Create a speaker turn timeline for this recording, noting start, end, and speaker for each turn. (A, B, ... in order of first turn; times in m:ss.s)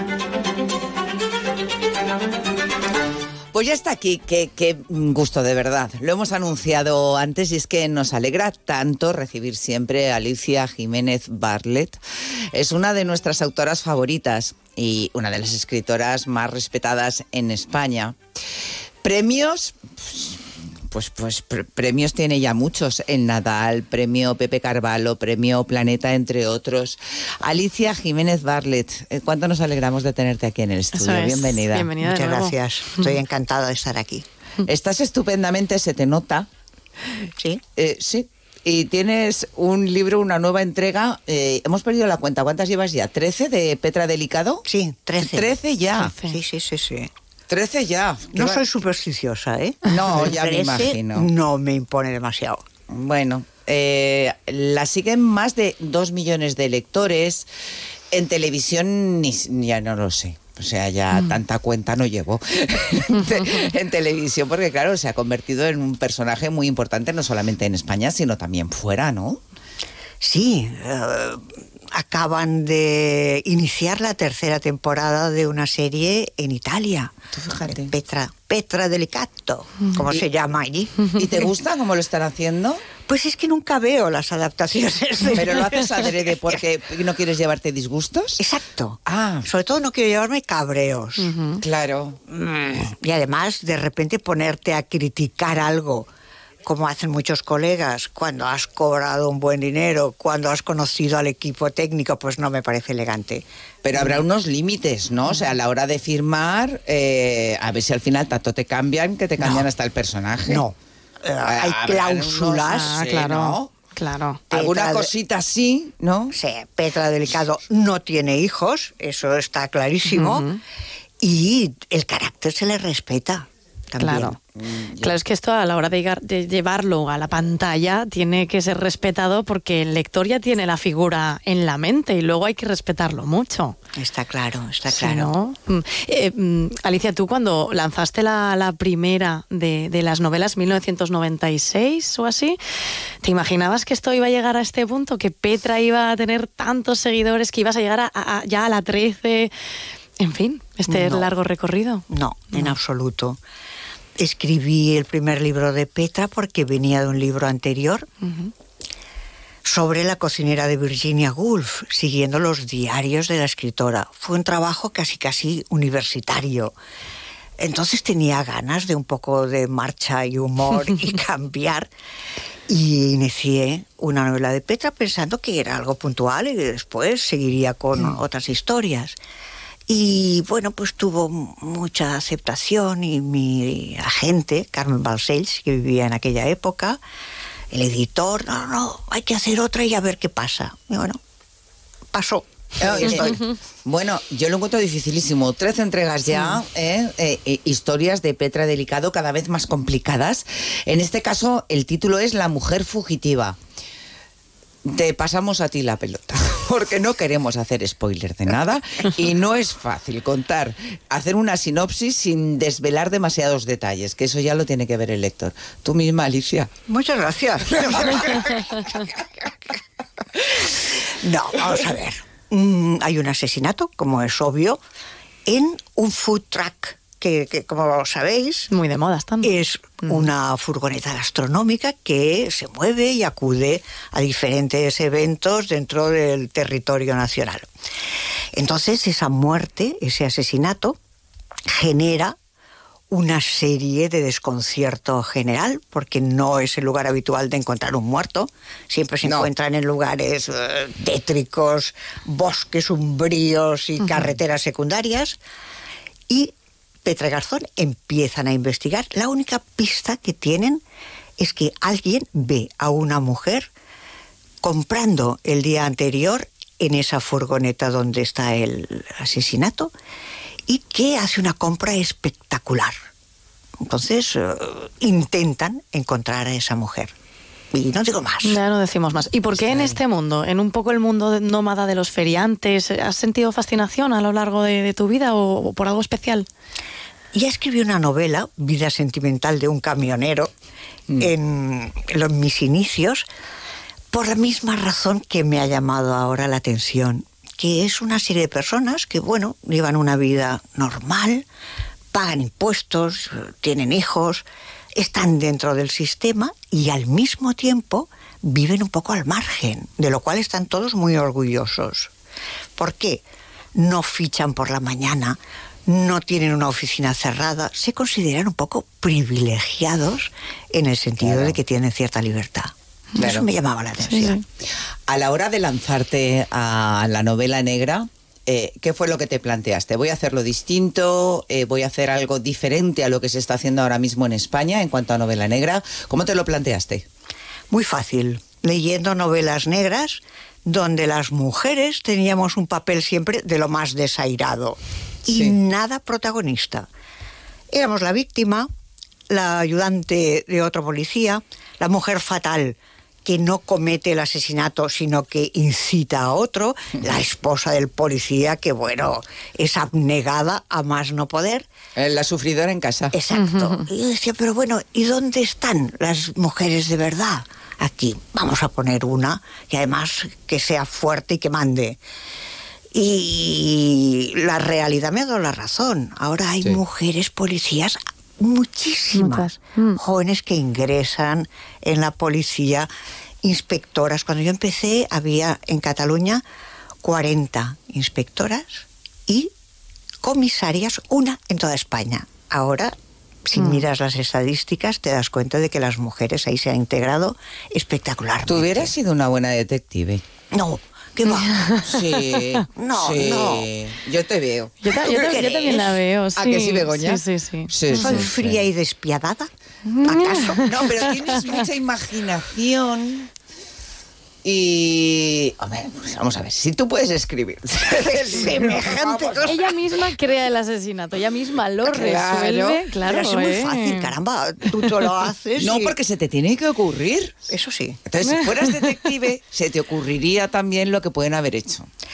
0:03.5-0:12.0 A
0:12.5-0:18.2 A
0:19.0-0:31.9 A
0:30.9-0:33.1 B
0:32.0-0:34.2 C
0:34.6-0:36.5 A
0:37.8-0:44.6 A
0:44.6-0:45.5 C
0:45.2-0:46.2 A
0:46.0-0:46.4 B
0:46.1-0:47.1 C
0:47.5-0:48.6 A
0:48.3-0:52.6 C
0:49.9-0:51.3 A
0:52.9-0:57.4 A
0:58.1-1:09.4 A
1:10.2-1:21.0 C
1:17.3-1:17.9 A
1:21.1-1:22.8 A
1:23.0-1:26.6 C
1:25.4-1:28.4 A
1:28.4-1:31.3 C
1:29.0-1:29.5 A
1:31.2-1:31.6 B
1:31.6-1:32.2 A
1:32.3-1:36.1 C
1:36.6-1:43.4 C
1:43.8-1:50.7 A
1:43.9-1:44.2 C
1:49.4-1:49.7 C
1:50.5-1:53.0 C
1:51.4-1:53.7 A
1:52.6-1:54.4 B
1:54.5-1:56.3 A
1:54.5-1:55.1 C
1:56.3-2:00.5 C
2:00.0-2:00.6 B
2:01.2-2:04.4 C
2:04.0-2:04.4 B
2:04.5-2:05.1 A
2:04.9-2:13.8 B
2:14.0-2:15.3 C
2:14.9-2:22.6 B
2:23.2-2:29.5 B
2:30.2-2:32.7 B
2:30.9-2:31.3 C
2:32.1-2:33.4 C
2:34.2-2:38.1 C
2:38.2-2:38.5 B
2:39.6-2:46.7 C
2:47.6-2:51.9 C
2:52.7-2:59.2 C
2:59.9-3:07.0 C
3:07.7-3:11.2 C
3:12.1-3:13.4 C
3:12.8-3:23.6 A
3:24.9-3:36.7 A
3:36.9-3:38.8 C
3:37.7-3:39.0 A
3:41.2-3:44.8 C
3:45.5-3:48.7 C
3:48.7-3:49.5 B
3:49.4-3:57.6 C
3:58.5-4:01.0 C
4:01.7-4:02.3 C
4:03.1-4:15.4 C
4:09.2-4:09.5 A
4:17.0-4:20.8 C
4:21.4-4:23.7 C
4:24.6-4:29.9 C
4:30.7-4:32.9 C
4:33.8-4:37.1 C
4:37.7-4:38.6 C
4:38.4-4:46.5 B
4:39.6-4:40.0 A
4:47.3-4:50.5 C
4:51.2-4:53.2 C
4:54.1-5:01.4 C
5:02.1-5:12.1 C
5:12.8-5:13.2 C
5:13.8-5:24.4 C
5:21.2-5:21.6 A
5:23.2-5:23.4 A
5:24.0-5:24.4 B
5:25.1-5:37.0 A
5:37.7-5:46.9 C
5:45.3-5:45.6 A
5:47.7-5:48.7 C
5:49.3-6:01.7 C
6:02.0-6:03.1 A
6:03.1-6:12.0 C
6:03.3-6:03.9 B
6:12.9-6:22.9 C
6:19.1-6:20.0 B
6:23.4-6:26.4 C
6:27.0-6:29.5 C
6:30.2-6:32.9 C
6:33.4-6:38.9 C
6:33.6-6:33.8 B
6:38.4-6:40.2 A
6:40.5-6:41.7 C
6:41.4-6:42.0 B
6:41.8-6:48.6 A
6:42.8-6:43.7 C
6:44.8-6:48.3 B
6:45.1-6:45.8 C
6:47.9-6:49.5 C
6:49.9-6:51.4 B
6:50.0-6:50.6 C
6:50.6-6:53.3 A
6:54.4-6:59.8 A
6:57.9-6:59.7 C
6:59.4-7:04.1 B
7:01.8-7:02.9 A
7:03.0-7:06.0 C
7:05.6-7:07.4 A
7:07.5-7:08.0 C
7:08.1-7:11.9 A